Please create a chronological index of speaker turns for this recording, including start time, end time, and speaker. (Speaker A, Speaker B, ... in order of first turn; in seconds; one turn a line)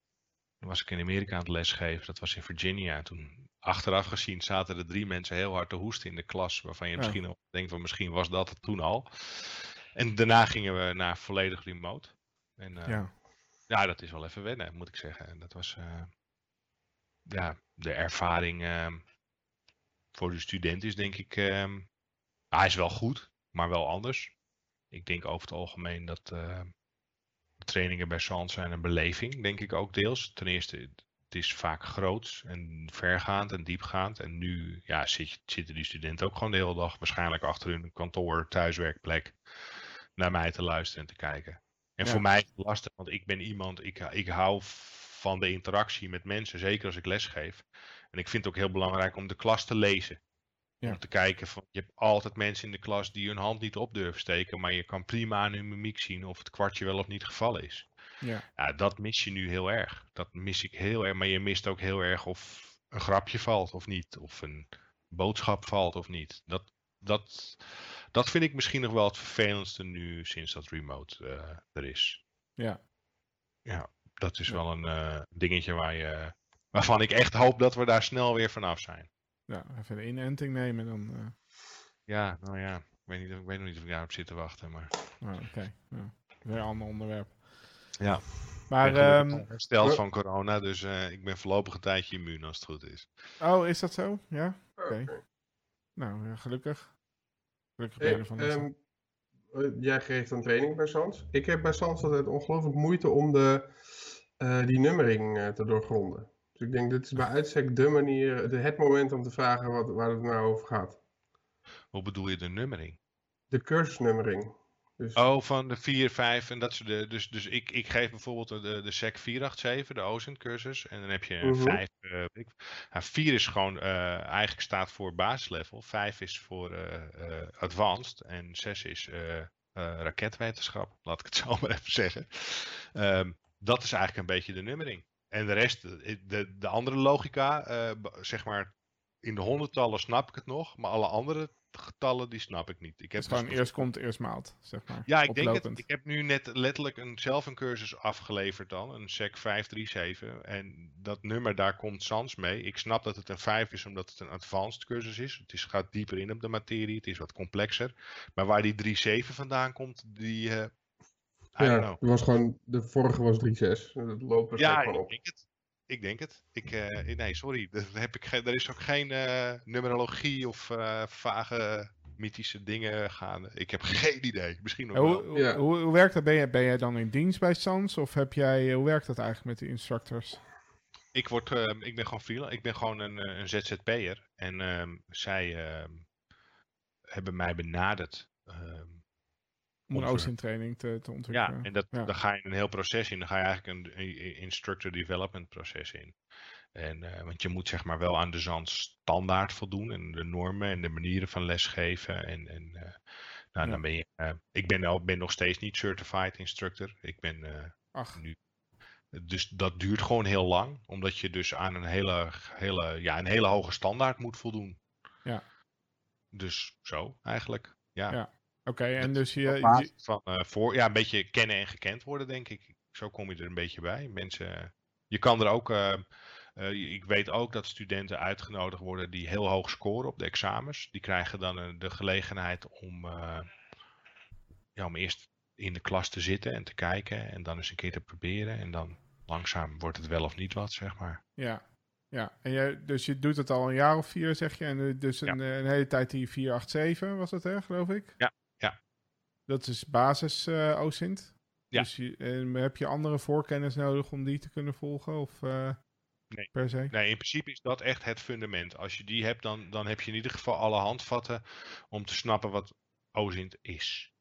Speaker A: 0.6-16.1
Speaker B: 12.9-13.1
Speaker A: 17.3-19.1
Speaker A: 20.1-21.9
Speaker A: 22.5-24.4
Speaker A: 24.9-26.7
Speaker A: 27.6-50.2
Speaker A: 50.8-57.9
Speaker B: 58.2-58.5
Speaker A: 58.6-72.2
Speaker A: 73.7-79.1
Speaker B: 79.5-81.4
Speaker A: 82.1-84.9
Speaker B: 85.2-88.0
Speaker A: 88.0-93.1
Speaker B: 88.7-89.5
Speaker B: 93.4-95.3
Speaker C: 94.8-95.2
Speaker B: 96.0-97.0
Speaker B: 97.8-98.7
Speaker C: 98.0-98.8
Speaker C: 99.5-111.0
Speaker A: 111.9-113.0
Speaker C: 113.5-115.2
Speaker A: 115.2-138.7
Speaker C: 121.4-121.8
Speaker A: 139.2-143.9
Speaker B: 143.2-145.8
Speaker A: 145.1-160.7
Speaker A: 161.5-162.0
Speaker C: 161.6-165.1
Speaker A: 164.6-175.3
Speaker B: 174.9-180.4
Speaker C: 175.3-175.6
Speaker A: 181.1-186.1
Speaker A: 187.1-189.0
Speaker B: 189.9-192.1
Speaker A: 189.9-190.3
Speaker A: 191.3-196.2
Speaker A: 196.8-203.0
Speaker A: 203.6-208.4
Speaker B: 207.9-208.2
Speaker A: 209.1-214.8
Speaker A: 216.3-218.2
Speaker B: 218.1-219.9
Speaker A: 219.0-226.0
Speaker A: 226.6-233.5
Speaker A: 234.8-241.2
Speaker B: 241.4-248.2
Speaker A: 248.2-248.8
Speaker B: 249.5-255.8
Speaker A: 256.3-264.1
Speaker B: 256.5-256.9